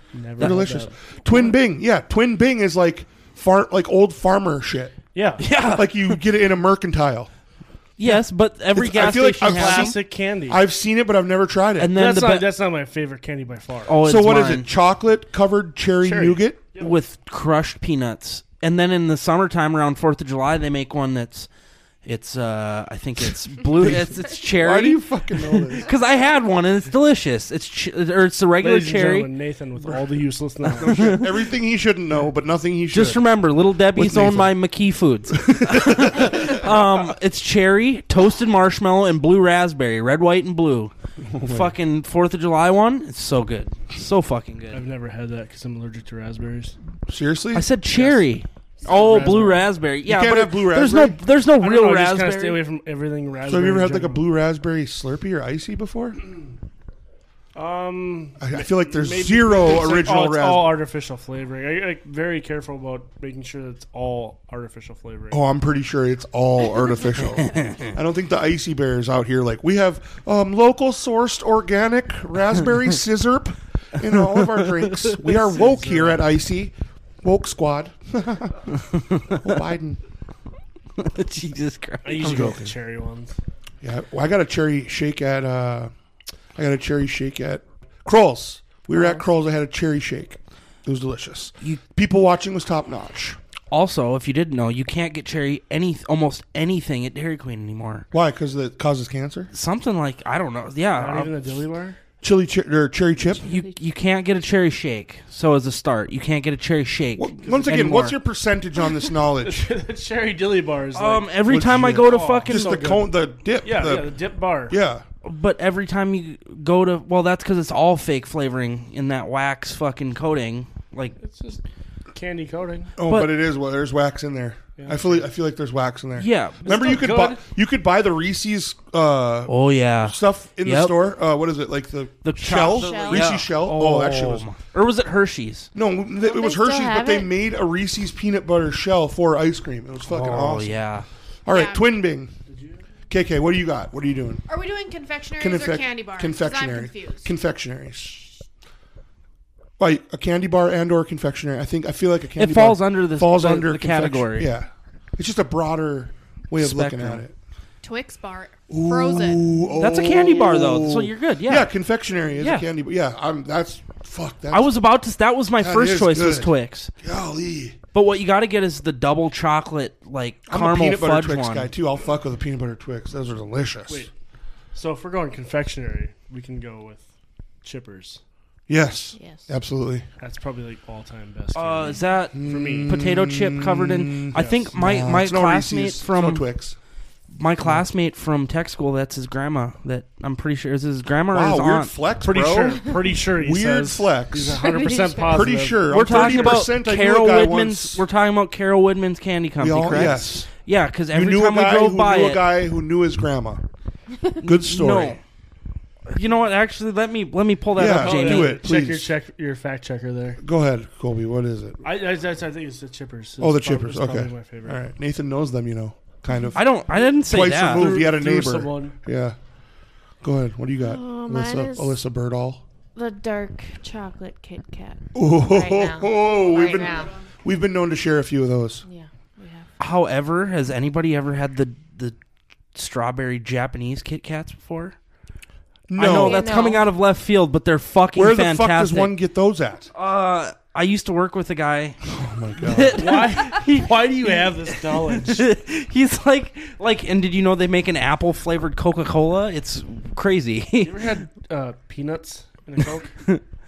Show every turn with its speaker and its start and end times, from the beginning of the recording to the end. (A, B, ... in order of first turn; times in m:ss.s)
0:00.1-0:01.5 A
0:00.4-0:00.6 B
0:00.4-0:05.0 C
0:05.1-0:05.4 A
0:05.4-0:06.2 B
0:05.7-0:07.3 C
0:08.0-0:10.0 B
0:08.7-0:11.9 C
0:08.9-0:10.6 A
0:11.8-0:12.5 B
0:11.9-0:14.0 A
0:13.9-0:14.7 B
0:14.0-0:16.6 C
0:16.0-0:17.0 A
0:16.8-0:21.5 B
0:22.0-0:29.3 B
0:23.8-0:25.9 C
0:28.6-0:31.1 A
0:30.7-0:33.3 C
0:30.8-0:31.4 B
0:32.9-0:44.8 B
0:33.9-0:34.6 C
0:35.3-0:36.6 C
0:41.2-0:41.7 C
0:44.7-0:46.8 A
0:47.1-0:47.7 C
0:47.5-0:52.6 B
0:48.8-0:49.7 A
0:50.0-0:51.2 C
0:51.6-0:54.2 A
0:53.5-0:56.2 C
0:57.6-1:05.4 A
0:58.4-1:00.8 C
1:05.3-1:20.0 C
1:07.4-1:07.8 B
1:14.1-1:15.1 B
1:15.2-1:16.2 A
1:21.0-1:22.6 B
1:22.0-1:23.4 A
1:22.2-1:22.7 C
1:23.8-1:25.9 C
1:26.6-1:33.4 C
1:33.7-1:38.1 B
1:38.1-1:39.5 C
1:39.5-1:41.4 B
1:41.0-1:42.0 A
1:42.2-1:43.4 C
1:43.4-1:48.2 B
1:47.2-1:49.7 C
1:49.4-1:51.4 A
1:50.9-1:53.0 B
1:51.5-1:54.1 C
1:52.0-1:53.1 A
1:53.6-1:54.8 A
1:54.7-1:55.0 C
1:55.2-2:01.2 B
2:01.2-2:01.6 A
2:02.1-2:02.9 A
2:03.0-2:14.5 C
2:03.1-2:03.3 B
2:04.8-2:05.2 A
2:06.2-2:07.3 B
2:06.6-2:07.4 A
2:09.5-2:11.0 B
2:12.2-2:15.7 B
2:12.7-2:13.3 D
2:15.8-2:20.8 C
2:16.2-2:17.3 D
2:20.0-2:21.1 B
2:21.4-2:22.3 C
2:21.5-2:21.9 E
2:22.5-2:22.8 A
2:23.1-2:24.5 C
2:24.5-2:27.3 E
2:25.4-2:28.3 C
2:29.8-2:37.4 C
2:32.4-2:34.5 B
2:36.6-2:37.2 B
2:37.8-2:39.5 E
2:38.7-2:44.7 C
2:39.8-2:41.7 B
2:42.4-2:42.7 B
2:44.5-2:46.9 B
2:45.6-2:47.8 C
2:47.9-2:51.7 B
2:50.5-2:54.1 C
2:54.7-2:57.1 A
2:57.6-2:58.2 A
2:58.7-3:00.0 C
2:59.2-2:59.4 D
3:00.2-3:02.9 A
3:01.6-3:06.5 B
3:02.3-3:06.8 C
3:04.4-3:04.7 A
3:07.3-3:11.9 B
3:11.3-3:14.6 C
3:12.2-3:16.7 A
3:14.6-3:15.5 D
3:15.3-3:18.0 C
3:15.8-3:22.4 B
3:19.6-3:20.5 C
3:21.1-3:23.6 C
3:24.4-3:25.2 C
3:24.4-3:25.2 B
3:26.1-3:28.6 B
3:27.8-3:29.1 C
3:27.8-3:30.4 A
3:30.4-3:31.8 C
3:31.8-3:34.8 A
3:33.4-3:39.4 C
3:36.5-3:38.0 B
3:37.5-3:39.0 A
3:40.2-3:42.6 C
3:40.8-3:42.0 D
3:43.0-3:47.1 D
3:45.2-3:48.8 C
3:46.6-3:47.1 E
3:48.9-3:49.7 D
3:49.8-3:52.2 B
3:52.7-3:55.0 B
3:55.9-3:56.6 C
3:56.0-3:59.1 B
3:56.1-3:56.9 D
3:58.2-3:59.9 C
3:59.9-4:02.0 B
4:02.1-4:03.0 C
4:02.6-4:11.2 B
4:02.9-4:05.5 A
4:10.8-4:13.2 A